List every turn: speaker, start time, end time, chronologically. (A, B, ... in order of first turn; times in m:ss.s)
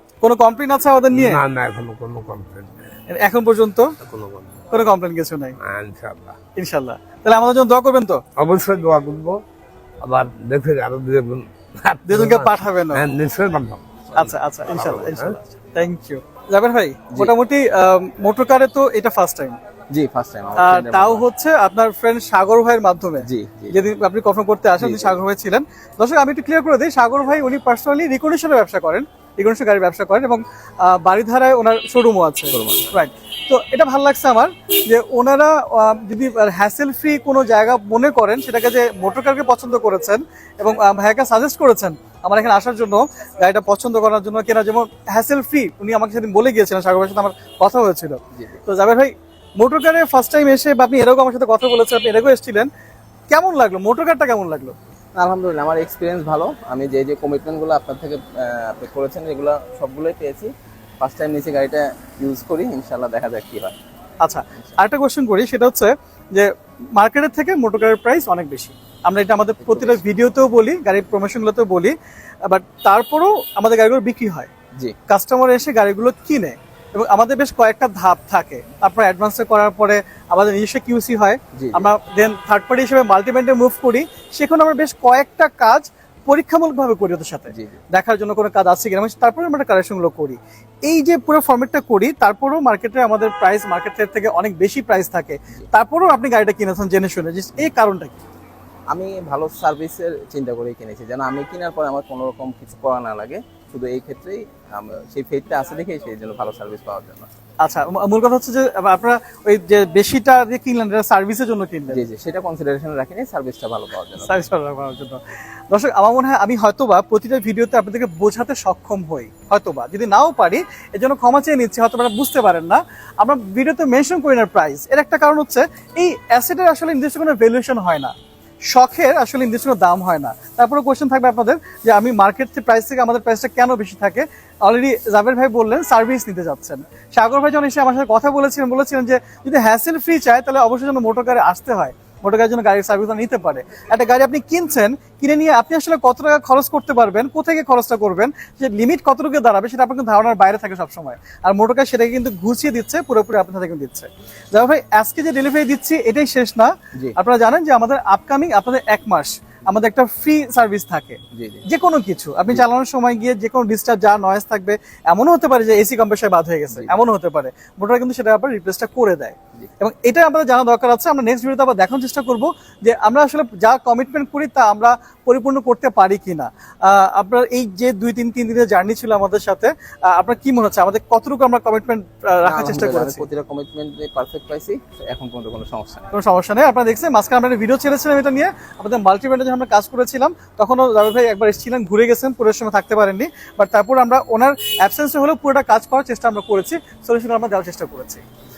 0:00.2-0:01.4 A
0:01.1-0:02.9 B
0:03.1-0:03.9 A
0:04.0-0:04.7 B
0:04.7-0:05.6 A
0:05.6-0:06.4 B
0:06.6-0:08.2 A
0:08.4-0:09.4 B
0:10.0-0:15.4 B
0:12.0-0:13.0 A
0:14.1-0:19.6 A
0:19.9-0:21.2 C
0:20.6-0:52.7 A
0:23.2-0:23.8 C
0:24.8-0:25.2 C
0:32.5-0:32.9 C
0:48.3-0:48.6 C
0:53.3-0:54.7 A
0:55.1-1:03.8 C
1:04.2-1:11.9 A
1:09.6-1:10.0 C
1:12.4-1:14.5 A
1:15.1-1:38.2 A
1:21.5-1:21.9 C
1:27.5-1:27.8 C
1:38.9-1:47.3 C
1:47.6-1:52.0 A
1:51.9-1:54.4 C
1:54.2-2:08.1 A
2:08.7-3:03.3 A
2:41.3-2:41.6 C
3:02.4-3:06.1 C
3:06.1-3:18.2 A